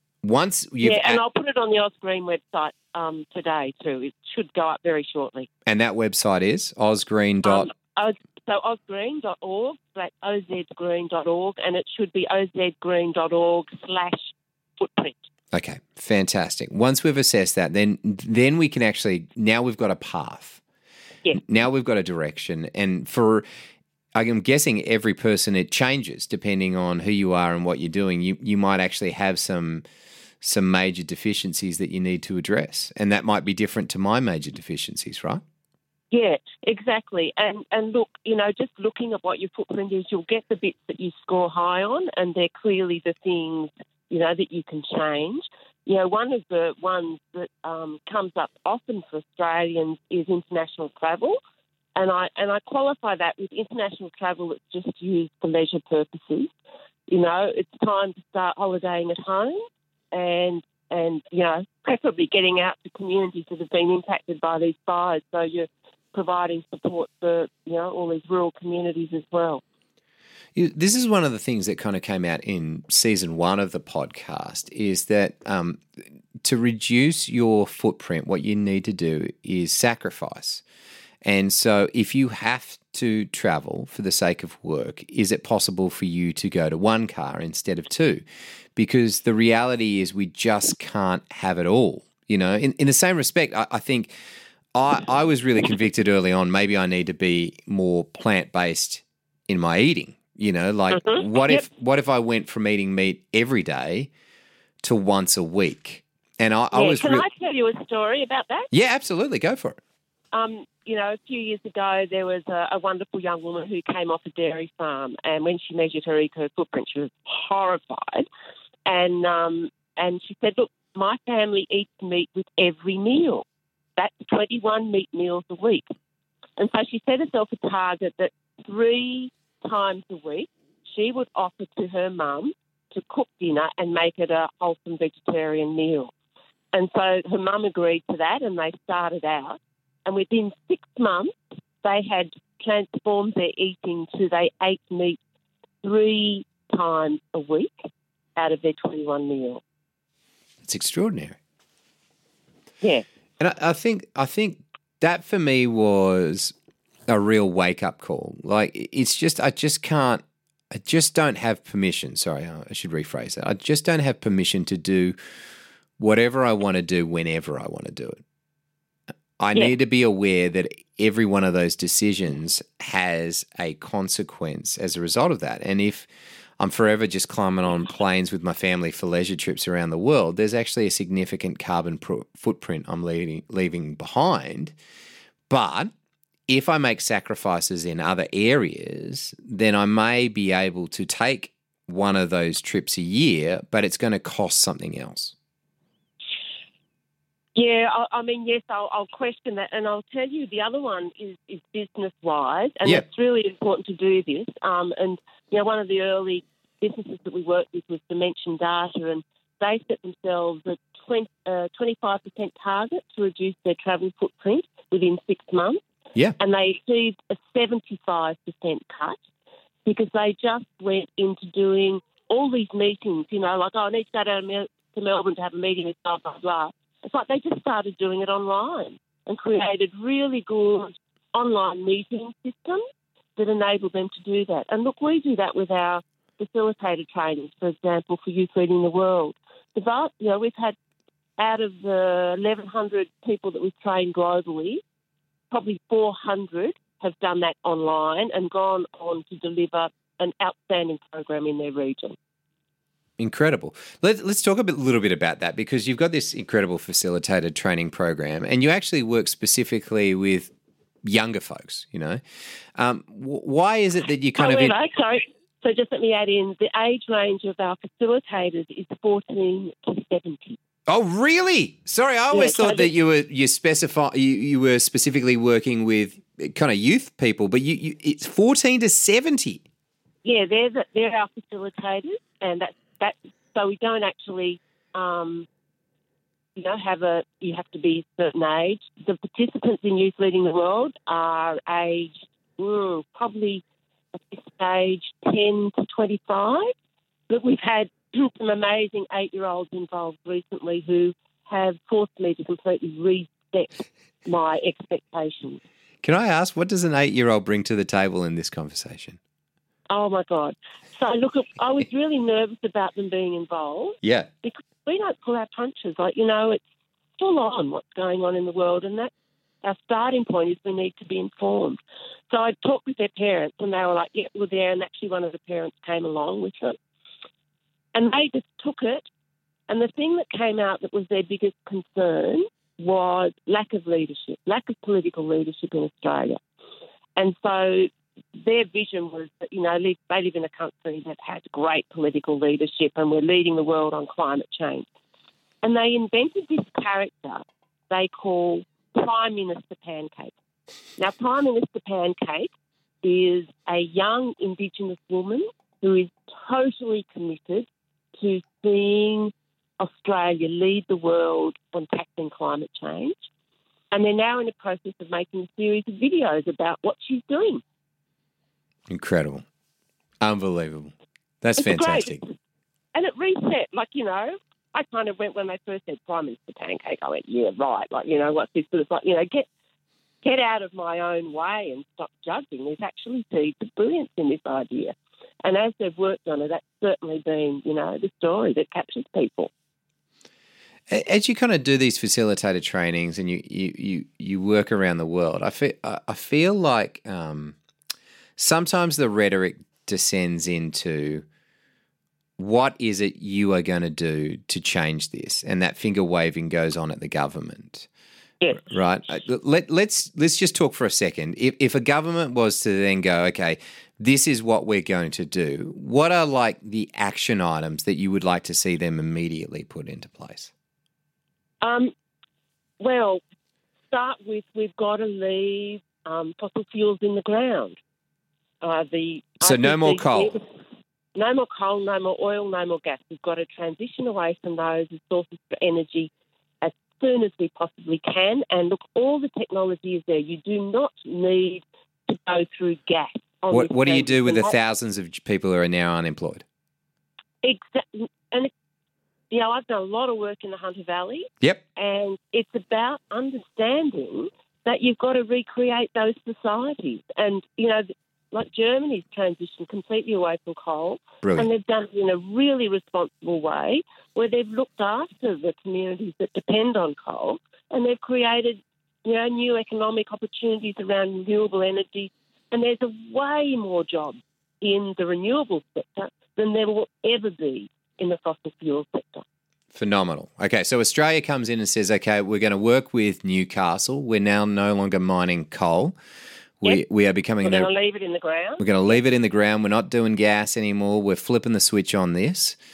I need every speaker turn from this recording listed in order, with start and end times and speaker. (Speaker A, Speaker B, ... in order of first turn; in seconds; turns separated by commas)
Speaker A: 0.2-1.2, Speaker B: 0.8-5.5, Speaker A: 5.7-7.7, Speaker B: 7.5-15.2, Speaker A: 15.5-20.6, Speaker A: 21.3-23.4, Speaker A: 24.1-29.8, Speaker A: 30.4-35.4, Speaker B: 36.1-51.4, Speaker B: 52.0-56.5, Speaker B: 57.1-69.6, Speaker A: 70.6-75.8, Speaker A: 76.4-80.6, Speaker A: 81.2-88.2, Speaker A: 88.8-94.2, Speaker A: 94.7-104.1, Speaker B: 100.9-101.7, Speaker A: 104.8-107.2, Speaker B: 106.7-108.7, Speaker A: 108.7-109.8, Speaker B: 110.3-118.3, Speaker B: 118.9-123.5, Speaker B: 124.0-125.8, Speaker B: 126.6-136.1, Speaker B: 136.7-145.2, Speaker B: 145.8-149.6, Speaker A: 150.6-151.4, Speaker A: 153.4-156.5, Speaker A: 157.1-165.2, Speaker A: 166.0-168.2, Speaker A: 169.4-176.1, Speaker A: 176.6-184.8, Speaker A: 185.5-185.9, Speaker A: 186.5-195.3, Speaker B: 197.6-215.8, Speaker B: 216.4-219.2, Speaker B: 219.9-232.8, Speaker B: 233.4-240.8, Speaker B: 241.4-244.8, Speaker B: 245.5-252.2, Speaker A: 253.2-260.5, Speaker A: 261.0-262.2, Speaker A: 262.8-264.7, Speaker B: 264.4-270.6, Speaker A: 270.9-279.6, Speaker B: 272.3-272.9, Speaker B: 280.2-285.5, Speaker B: 286.6-293.6, Speaker B: 294.1-296.7, Speaker B: 297.3-305.6, Speaker A: 306.0-309.2, Speaker B: 309.9-316.6, Speaker A: 314.0-314.3, Speaker B: 317.2-319.1, Speaker B: 319.6-321.8, Speaker B: 322.3-326.8, Speaker B: 327.9-329.1, Speaker B: 329.7-336.4, Speaker B: 337.2-344.9, Speaker B: 345.6-350.3, Speaker B: 351.0-363.2, Speaker B: 363.9-367.6, Speaker A: 368.9-369.5, Speaker A: 370.2-372.2, Speaker B: 371.6-372.2, Speaker B: 372.9-379.5, Speaker B: 380.2-389.5, Speaker A: 390.9-397.6, Speaker A: 398.4-401.2, Speaker A: 402.4-407.9, Speaker A: 408.6-420.5, Speaker B: 421.6-421.9, Speaker B: 422.8-423.2, Speaker B: 423.9-427.8, Speaker B: 428.6-430.4, Speaker A: 429.4-430.4, Speaker B: 431.1-444.5, Speaker A: 443.5-446.4, Speaker B: 447.4-448.5, Speaker B: 449.3-479.2, Speaker A: 461.2-461.5, Speaker A: 479.7-485.9, Speaker A: 486.6-487.7, Speaker B: 487.4-489.0, Speaker A: 488.6-492.6